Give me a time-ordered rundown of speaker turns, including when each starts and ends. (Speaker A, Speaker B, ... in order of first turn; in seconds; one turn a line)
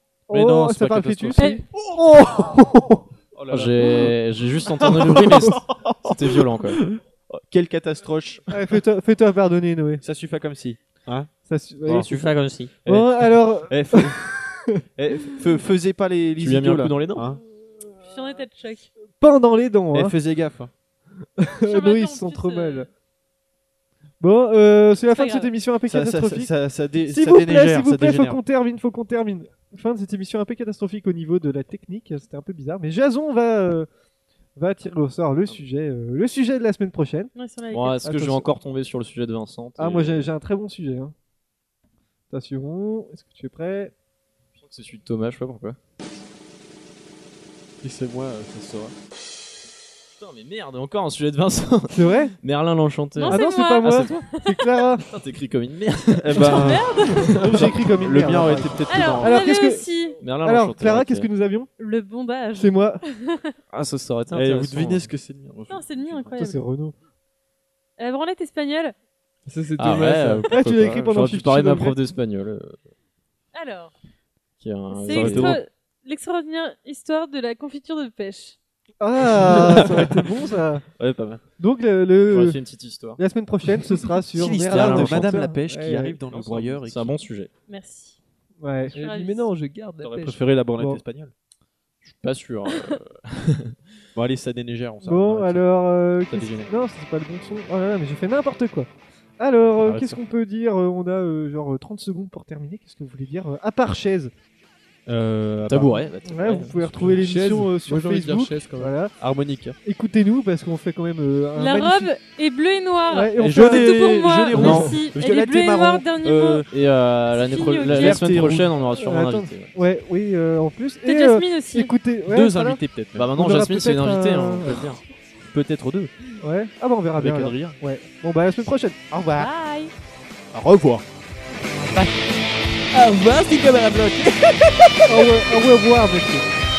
Speaker A: 0.3-3.0
Speaker B: 0.3-2.5
Speaker C: 1.4-1.6
Speaker B: 3.3-4.2
Speaker D: 3.5-6.8
Speaker B: 4.8-8.6
Speaker A: 8.5-10.0
Speaker B: 10.0-11.3
Speaker A: 11.5-12.3
Speaker D: 11.9-12.8
Speaker B: 12.8-14.3
Speaker A: 12.9-14.8
Speaker B: 15.0-17.4
Speaker D: 16.4-17.3
Speaker C: 17.9-18.9
Speaker A: 19.2-20.1
Speaker B: 19.9-20.7
Speaker A: 21.4-22.9
Speaker C: 21.7-22.9
Speaker A: 24.2-26.5
Speaker C: 25.1-25.5
Speaker B: 25.9-28.4
Speaker A: 27.1-33.9
Speaker A: 34.6-37.3
Speaker C: 37.4-38.0
Speaker D: 37.7-40.3
Speaker A: 38.0-38.5
Speaker A: 39.8-41.1
Speaker A: 42.3-43.9
Speaker D: 44.6-45.8
Speaker B: 47.8-48.9
Speaker D: 50.1-54.3
Speaker A: 51.9-52.3
Speaker C: 53.2-54.6
Speaker A: 53.3-55.1
Speaker D: 55.1-56.8
Speaker B: 56.2-57.3
Speaker C: 56.3-57.7
Speaker A: 57.4-59.9
Speaker B: 58.0-59.5
Speaker C: 58.9-60.3
Speaker D: 60.2-61.3
Speaker A: 60.4-61.7
Speaker C: 61.8-63.5
Speaker A: 62.5-63.0
Speaker D: 63.7-65.1
Speaker B: 64.3-66.3
Speaker C: 65.7-66.6
Speaker A: 66.4-67.0
Speaker C: 68.0-69.0
Speaker E: 69.5-70.5
Speaker D: 69.8-72.8
Speaker A: 70.5-72.0
Speaker C: 73.5-73.9
Speaker D: 74.6-75.6
Speaker C: 74.9-78.6
Speaker B: 75.1-75.6
Speaker A: 79.0-80.8
Speaker B: 79.4-80.2
Speaker B: 81.0-81.4
Speaker A: 81.6-82.6
Speaker D: 82.3-83.2
Speaker A: 83.2-86.2
Speaker B: 84.3-87.2
Speaker D: 84.4-85.5
Speaker D: 86.3-87.5
Speaker C: 87.7-88.2
Speaker A: 88.6-89.0
Speaker C: 88.9-89.5
Speaker E: 88.9-90.4
Speaker B: 90.0-91.3
Speaker A: 90.8-91.0
Speaker D: 92.0-93.8
Speaker B: 94.2-95.6
Speaker A: 95.0-104.3
Speaker D: 96.3-96.7
Speaker B: 99.8-100.2
Speaker B: 105.1-106.1
Speaker D: 105.7-106.9
Speaker A: 106.3-109.2
Speaker B: 106.9-107.1
Speaker E: 107.2-108.9
Speaker B: 109.2-109.8
Speaker A: 109.8-112.1
Speaker C: 111.6-116.7
Speaker A: 113.1-114.0
Speaker B: 113.3-116.7
Speaker D: 114.5-115.0
Speaker D: 116.7-119.8
Speaker C: 117.3-118.2
Speaker B: 117.9-118.8
Speaker A: 117.9-122.8
Speaker C: 121.0-121.9
Speaker B: 122.3-123.3
Speaker D: 123.2-125.0
Speaker A: 123.3-124.9
Speaker B: 125.5-126.1
Speaker A: 126.4-129.2
Speaker B: 127.2-127.8
Speaker B: 129.1-129.5
Speaker C: 129.4-129.9
Speaker B: 130.5-131.0
Speaker E: 132.9-134.9
Speaker A: 135.1-136.5